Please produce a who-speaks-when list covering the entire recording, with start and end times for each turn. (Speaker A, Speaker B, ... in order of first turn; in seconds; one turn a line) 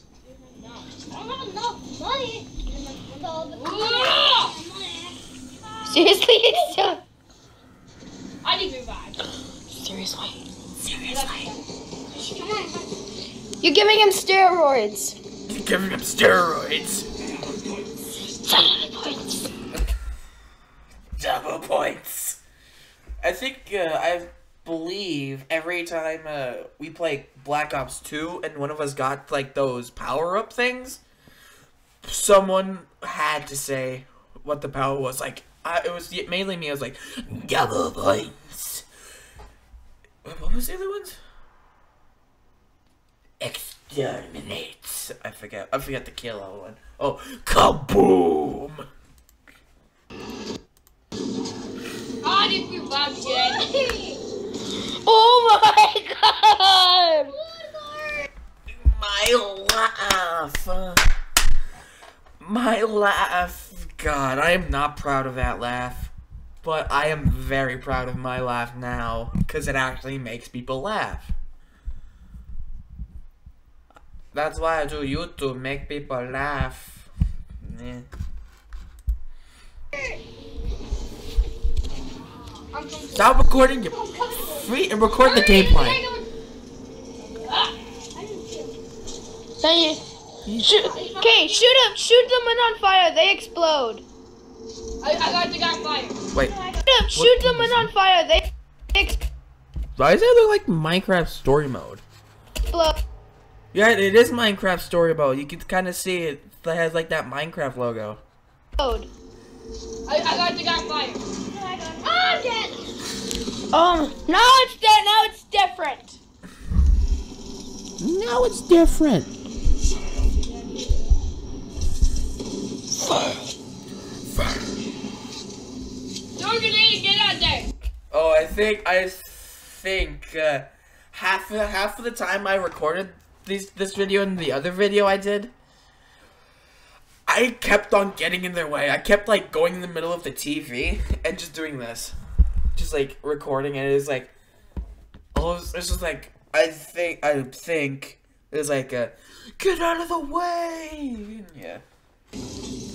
Speaker A: 0.2-1.0
Speaker B: 1.1-2.5
Speaker A: 2.6-4.6
Speaker B: 3.2-6.0
Speaker C: 5.9-7.0
Speaker A: 8.4-9.2
Speaker C: 9.7-10.4
Speaker D: 10.8-11.5
Speaker A: 11.1-12.8
Speaker B: 12.3-12.8
Speaker C: 13.6-15.2
Speaker D: 15.5-17.1
Speaker C: 18.4-19.4
Speaker D: 21.1-22.4
Speaker D: 23.2-31.0
Speaker D: 32.0-38.9
Speaker D: 40.2-41.2
Speaker D: 43.4-48.9
Speaker A: 52.2-53.7
Speaker B: 53.2-54.2
Speaker C: 55.0-57.3
Speaker B: 57.2-58.3
Speaker D: 58.7-61.0
Speaker D: 62.4-66.1
Speaker D: 66.6-71.3
Speaker D: 74.3-77.1
Speaker D: 77.6-78.1
Speaker B: 79.9-80.2
Speaker A: 82.7-83.3
Speaker D: 83.1-86.0
Speaker B: 83.9-84.7
Speaker B: 85.2-86.2
Speaker A: 85.3-86.1
Speaker A: 87.2-87.8
Speaker B: 88.1-88.8
Speaker C: 89.6-94.0
Speaker D: 90.5-90.8
Speaker A: 90.9-91.8
Speaker A: 95.0-96.2
Speaker B: 96.4-96.8
Speaker C: 96.8-99.2
Speaker D: 97.1-97.9
Speaker D: 100.0-102.0
Speaker C: 102.7-103.0
Speaker D: 103.7-108.2
Speaker C: 108.8-109.1
Speaker A: 110.1-111.2
Speaker B: 111.5-112.8
Speaker C: 113.7-116.2
Speaker D: 118.0-119.3
Speaker A: 120.3-121.0
Speaker A: 126.4-127.7
Speaker D: 128.1-135.5
Speaker D: 137.3-142.2
Speaker D: 142.8-144.3
Speaker D: 145.3-151.8